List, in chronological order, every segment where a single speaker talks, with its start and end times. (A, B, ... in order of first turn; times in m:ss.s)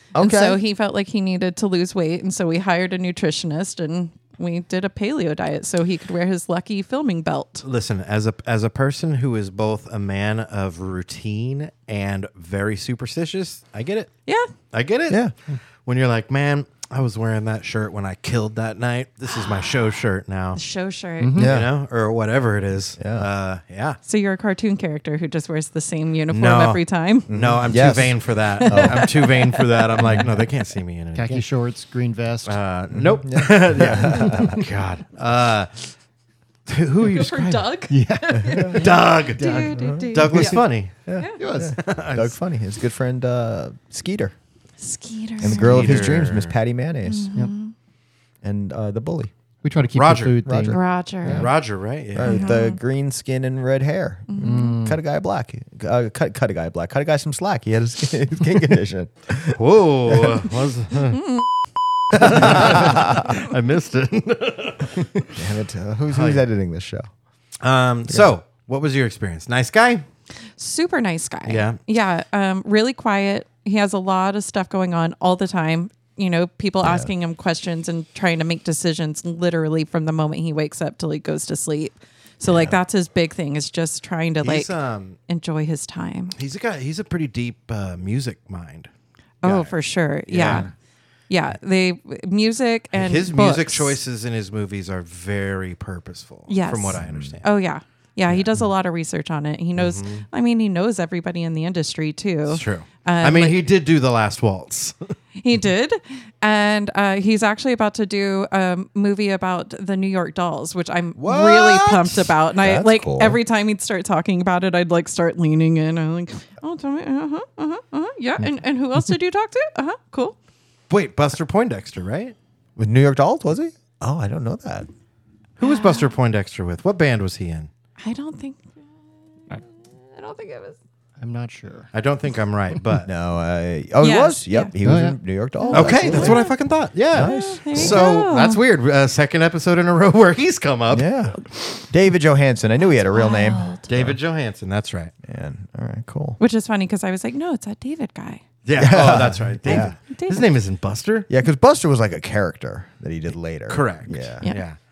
0:00.2-0:00.6 A
0:00.2-0:07.6 B
0:07.6-0:14.1 C
0:14.3-0:14.5 B
0:14.7-0:15.2 C
0:15.1-0:15.3 A
0:15.8-0:20.6 C
0:19.3-0:19.9 B
0:20.6-0:21.4 B
0:21.2-0:21.6 D
0:21.4-0:21.7 A
0:21.4-0:24.0 C
0:23.0-0:23.3 A
0:24.0-0:27.3 B
0:26.3-0:31.4 C
0:27.3-0:29.1 A
0:28.6-0:30.2 B
0:31.2-0:32.6 D
0:32.4-0:36.0 C
0:32.9-0:34.6 A
0:36.7-0:37.7 C
0:37.0-0:40.6 B
0:37.9-0:39.8 D
0:38.3-0:39.0 A
0:38.8-0:39.5 C
0:39.7-0:44.3 A
0:40.1-0:41.0 C
0:41.4-0:41.8 D
0:41.8-0:42.3 C
0:44.8-0:46.0 B
0:45.4-0:47.3 A
0:45.5-0:46.6 C
0:47.1-0:47.7 B
0:48.4-0:49.3 A
0:49.6-0:51.5 D
0:49.9-0:50.4 C
0:50.4-0:50.8 A
0:50.7-0:51.5 B
0:51.3-0:52.4 C
0:52.1-0:59.6 A
0:52.2-0:52.8 B
0:54.3-0:54.8 B
0:54.4-0:55.0 D
0:59.5-1:01.2 C
1:00.1-1:00.4 A
1:02.1-1:05.4 C
1:02.1-1:03.4 A
1:05.4-1:07.1 A
1:06.1-1:06.4 C
1:07.6-1:10.0 C
1:10.6-1:24.7 B
1:11.5-1:11.8 C
1:16.8-1:17.1 A
1:22.4-1:22.8 A
1:24.4-1:25.2 C
1:25.3-1:26.4 B
1:26.4-1:28.9 C
1:29.4-1:30.7 B
1:29.4-1:29.7 C
1:30.3-1:30.7 C
1:31.3-1:34.0 B
1:32.9-1:37.5 C
1:36.5-1:43.6 B
1:37.0-1:37.4 A
1:38.3-1:38.7 C
1:39.8-1:40.3 C
1:42.5-1:45.1 C
1:45.4-2:00.4 B
1:51.2-1:52.3 C
1:52.6-1:53.4 A
2:00.9-2:02.4 C
2:02.8-2:04.9 A
2:05.6-2:07.7 C
2:05.6-2:06.1 B
2:08.0-2:08.7 B
2:09.5-2:10.8 B
2:11.2-2:11.9 D
2:11.9-2:13.1 C
2:13.1-2:16.6 A
2:14.0-2:14.7 B
2:14.8-2:15.2 D
2:15.6-2:16.6 B
2:15.7-2:21.8 C
2:17.1-2:18.0 A
2:17.2-2:18.6 B
2:20.9-2:24.2 A
2:22.8-2:23.9 B
2:23.9-2:25.1 C
2:25.2-2:26.4 A
2:26.4-2:28.4 B
2:28.6-2:31.3 C
2:28.8-2:30.0 A
2:29.7-2:30.4 B
2:31.3-2:34.4 A
2:33.7-2:34.8 C